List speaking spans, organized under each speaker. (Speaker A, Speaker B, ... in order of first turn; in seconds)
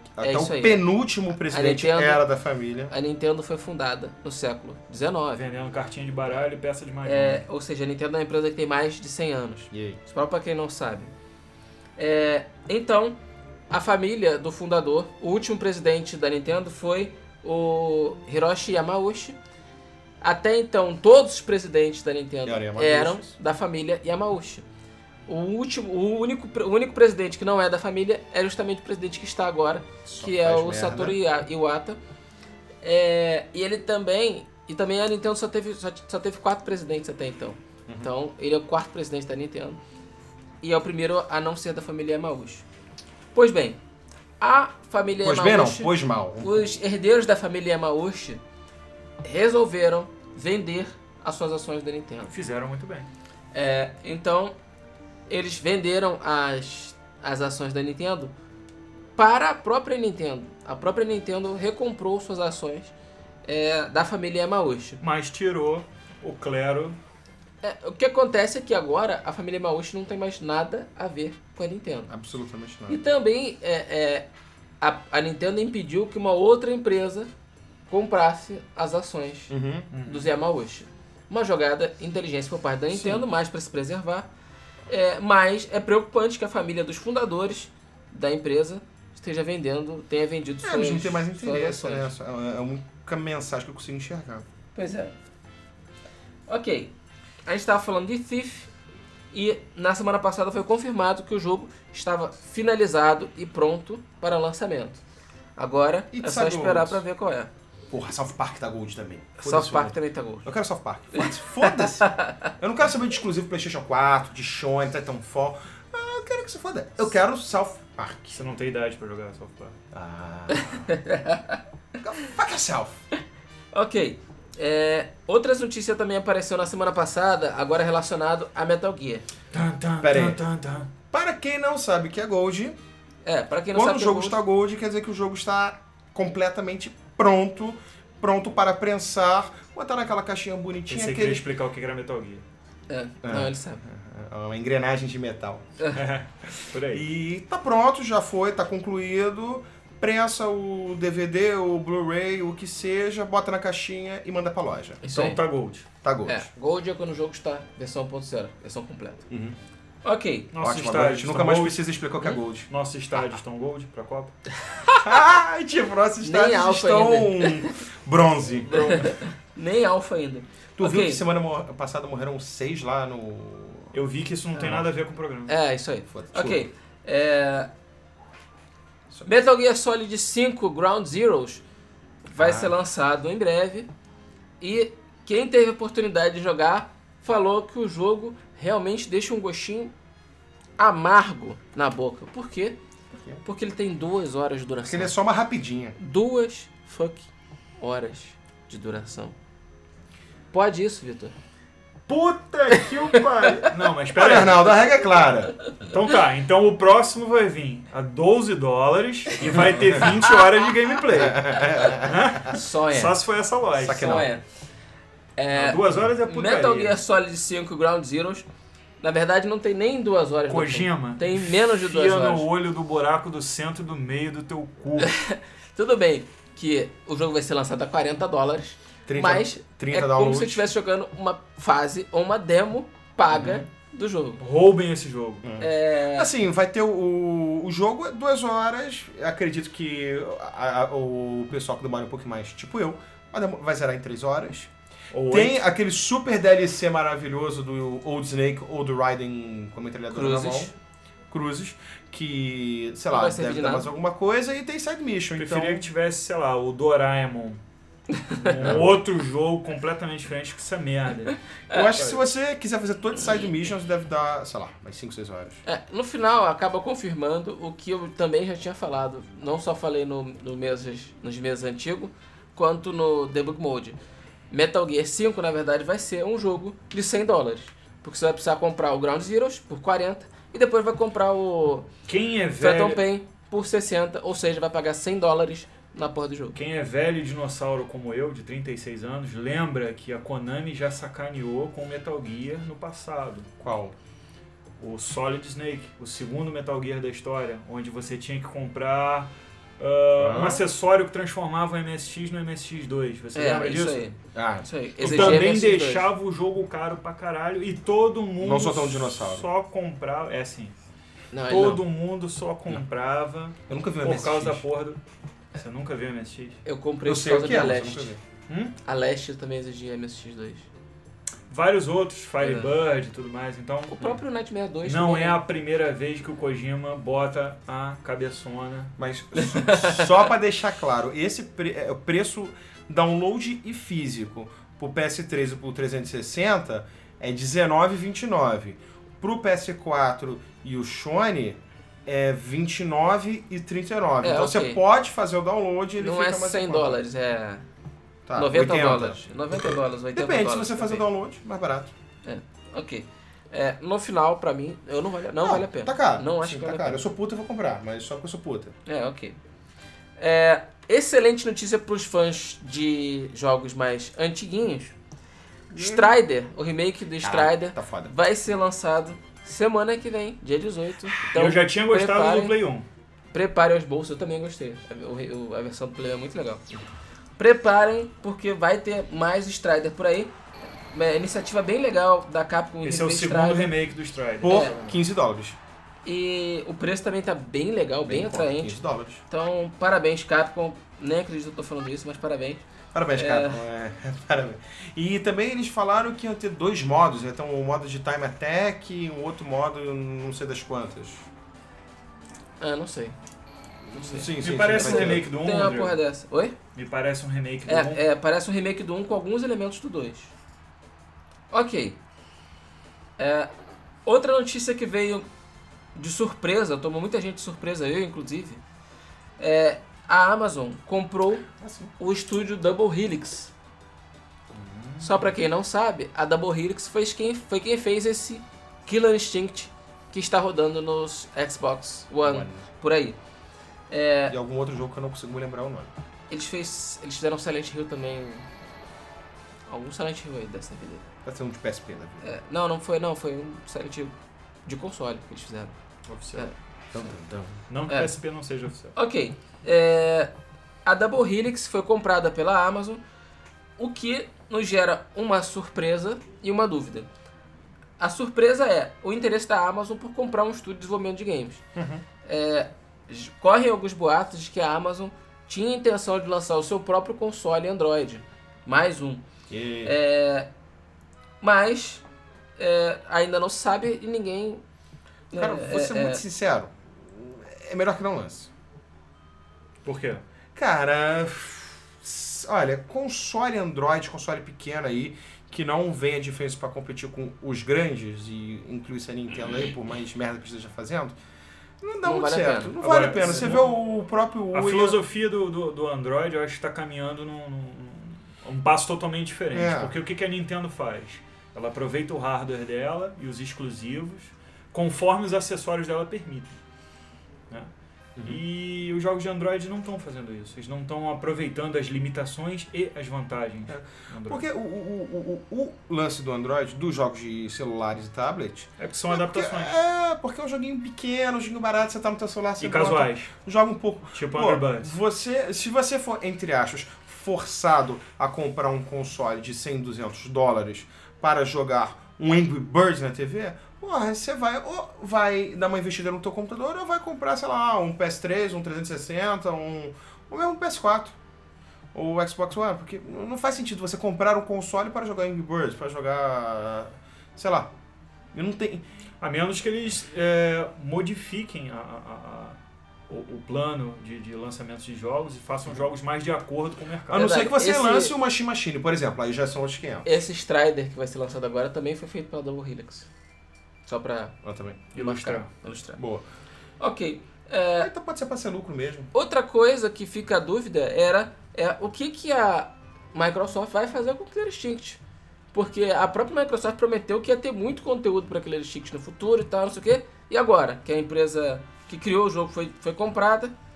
Speaker A: 0.2-2.9, 9.7-10.0, 22.4-23.4, 30.1-31.2, 45.2-46.6, 72.1-73.0, 79.5-79.9, 82.9-83.3, 90.6-94.5, 106.1-107.0, 107.9-118.4, 119.9-120.9, 122.0-123.0, 130.0-130.4, 131.1-132.8, 133.7-141.4, 143.2-145.7, 146.9-155.0, 156.0-156.5, 159.3-159.6, 160.6-163.4, 164.9-169.2, 170.8-174.0, 174.5-174.9, 176.1-176.7, 182.4-182.7, 193.1-193.4, 194.8-196.0, 204.1-205.6, 211.1-212.6, 213.8-214.3, 229.1-230.7, 233.3-233.7, 235.4-244.7, 245.3-250.7, 251.3-255.9, 258.6-259.0, 261.7-265.6, 293.6-293.9, 300.2-300.6, 304.3-305.5, 308.4-309.5, 313.7-314.6, 317.1-318.2, 329.0-347.0, 348.3-351.9, 355.4-358.8, 365.7-366.1, 367.2-368.1, 384.4-385.6, 388.1-389.2, 392.9-401.3, 404.0-405.3, 421.6-421.9, 432.2-432.7, 434.3-435.9, 441.2-442.3, 446.9-447.6, 461.8-462.0, 469.5-469.9, 475.3-478.5, 480.6-491.2, 491.8-495.0, 499.5-500.0, 508.2-508.4, 513.7-541.2, 541.9-547.7, 548.3-548.9, 557.1-560.1, 564.4-564.9, 566.0-566.2, 567.8-569.1
Speaker B: 0.2-0.8, 1.5-2.2, 2.9-5.5, 7.0-11.1, 12.0-13.2, 13.7-19.4, 20.2-24.6, 25.3-32.0, 32.8-39.8, 40.6-42.6, 43.3-43.8, 44.4-48.4, 49.2-52.3, 53.5-54.5, 55.3-58.3, 59.2-62.9, 63.5-65.0, 67.6-72.1, 72.9-74.3, 74.8-77.3, 77.9-84.3, 84.9-92.1, 94.8-95.1, 96.5-96.9, 97.5-98.7, 99.3-105.0, 105.6-107.5, 109.4-110.5, 111.1-112.5, 120.5-121.6, 123.7-129.3, 133.2-134.4, 142.9-143.8, 155.0-155.4, 156.3-159.3, 160.0-160.5, 164.7-165.0, 166.2-167.8, 168.7-171.2, 175.5-177.7, 179.2-181.6, 182.3-183.9, 184.6-189.9, 190.8-192.8, 193.4-195.1, 196.0-199.3, 200.5-201.3, 211.8-213.2, 213.8-214.4, 215.4-218.5, 219.0-222.5, 225.0-234.4, 235.6-236.3, 250.1-250.7, 253.1-253.9, 258.1-258.5, 265.6-274.0, 274.5-281.9, 282.6-286.6, 303.3-306.1, 311.3-311.8, 316.6-318.1, 318.8-320.7, 322.4-322.7, 323.9-325.4, 329.4-330.1, 344.2-344.8, 346.0-347.6, 348.4-351.1, 352.2-357.0, 358.9-359.4, 360.2-364.9, 365.8-372.6, 373.3-376.6, 377.4-380.3, 380.9-383.7, 384.5-384.8, 386.1-392.6, 393.1-393.6, 402.6-403.2, 403.9-406.6, 407.7-410.3, 411.5-412.0, 413.2-413.5, 414.1-415.2, 415.9-418.6, 419.4-421.5, 422.0-423.5, 425.0-433.2, 433.9-434.4, 436.3-438.5, 439.7-441.1, 442.2-444.1, 444.7-445.8, 448.9-450.3, 450.9-453.0, 453.8-457.1, 458.0-461.6, 462.2-469.2, 469.9-470.5, 471.4-472.0, 472.6-474.6, 475.3-476.2, 492.0-492.8, 557.1-558.2, 560.0-563.1, 563.9-564.4, 565.0-566.0, 566.8-567.9, 569.1-575.0, 575.5-583.5
Speaker C: 5.3-7.4, 52.3-53.1, 65.0-67.0, 79.9-80.3, 118.3-119.8, 129.5-130.9, 140.9-142.4, 145.9-147.0, 155.1-155.9, 160.5-161.8, 162.7-164.3, 173.9-175.5, 202.1-204.8, 205.8-214.2, 215.5-217.0, 220.5-225.1, 234.4-235.4, 245.1-245.6, 255.4-257.6, 258.3-261.4, 261.9-262.2, 282.1-283.0, 286.5-293.5, 294.8-304.1, 305.0-310.8, 311.5-315.0, 315.6-316.6, 318.5-318.8, 321.5-324.2, 324.8-328.9, 371.3-372.9, 382.8-384.9, 404.4-406.0, 406.8-408.0, 424.5-425.3, 446.1-446.5, 447.7-448.9, 479.9-480.2, 492.8-493.8, 494.5-506.6, 508.2-514.4, 518.8-519.7, 522.6-523.3, 524.1-524.9, 549.2-552.6, 553.1-557.3, 564.9-565.5